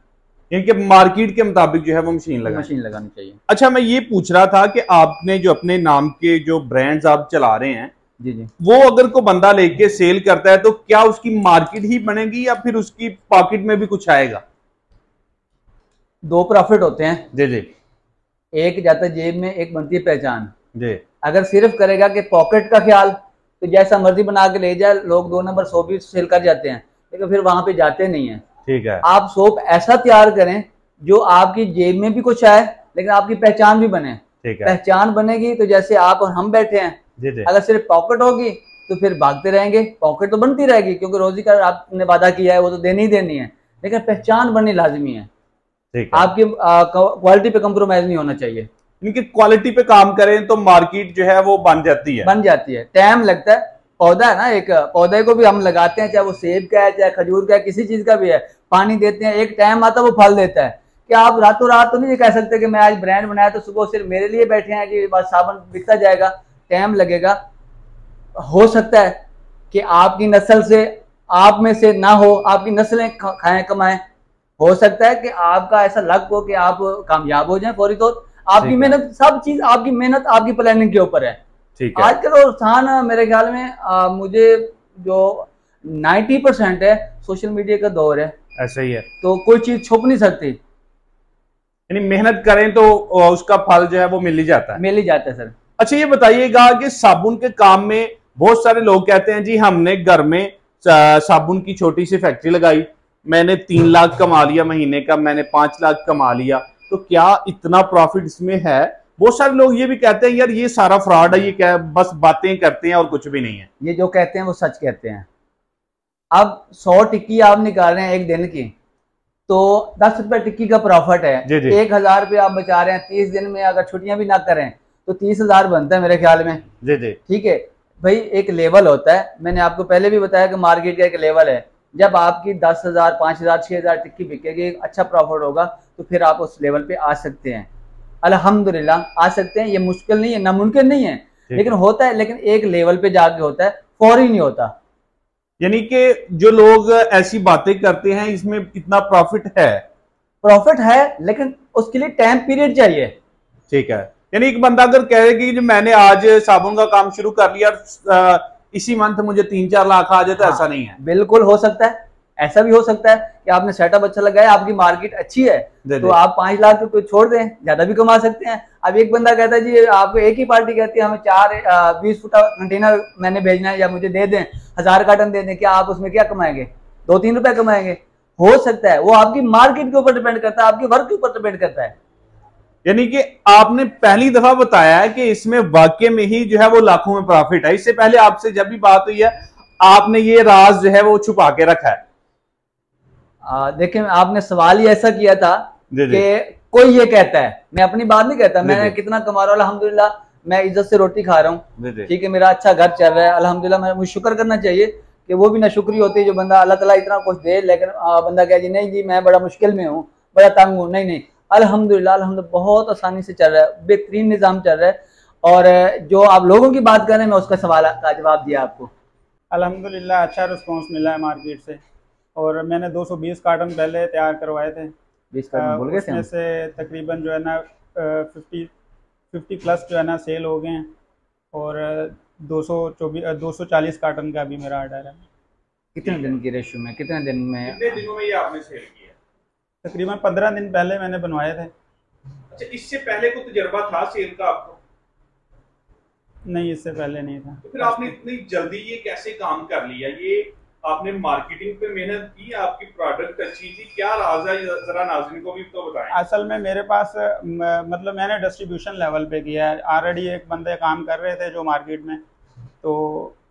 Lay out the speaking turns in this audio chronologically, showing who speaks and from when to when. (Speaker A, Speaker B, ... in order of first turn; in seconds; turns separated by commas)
Speaker A: 0.5-2.7, Speaker B: 2.4-3.4, Speaker A: 3.5-7.9, Speaker B: 8.2-8.5, Speaker A: 8.6-14.4, Speaker B: 16.2-17.3, Speaker A: 17.3-17.7, Speaker B: 18.5-20.5, Speaker A: 20.7-21.0, Speaker B: 21.2-28.4, Speaker A: 28.6-29.0, Speaker B: 29.0-45.3, Speaker A: 34.4-34.7, Speaker A: 37.2-37.5, Speaker A: 45.9-46.3, Speaker B: 46.1-48.7, Speaker A: 49.0-52.3, Speaker B: 52.2-67.4, Speaker B: 68.4-69.2, Speaker B: 69.7-74.0, Speaker B: 74.6-81.4, Speaker A: 78.6-79.0, Speaker A: 81.8-82.2, Speaker B: 82.0-88.3, Speaker A: 88.6-89.0, Speaker B: 89.2-90.6, Speaker A: 91.9-94.8, Speaker B: 94.8-95.5, Speaker A: 95.8-113.7, Speaker B: 113.8-115.2, Speaker B: 116.3-118.7, Speaker B: 119.5-126.6, Speaker A: 121.5-121.8, Speaker A: 126.8-127.2, Speaker B: 127.3-137.7, Speaker B: 138.2-144.7, Speaker A: 145.6-149.8, Speaker B: 150.4-153.1, Speaker A: 153.7-161.0, Speaker B: 160.4-181.9, Speaker A: 165.8-166.2, Speaker A: 182.8-192.0, Speaker B: 193.4-218.9, Speaker A: 195.9-196.2, Speaker A: 198.6-198.9, Speaker A: 201.8-202.1, Speaker C: 219.5-221.8, Speaker C: 222.3-224.9, Speaker B: 225.3-226.2, Speaker C: 225.5-228.7, Speaker C: 229.3-230.9, Speaker C: 231.5-235.2, Speaker B: 235.9-238.0, Speaker A: 237.7-239.2, Speaker C: 239.8-241.7, Speaker A: 242.5-244.8, Speaker C: 246.4-248.1, Speaker A: 247.6-256.1, Speaker C: 256.1-262.2, Speaker C: 262.8-263.4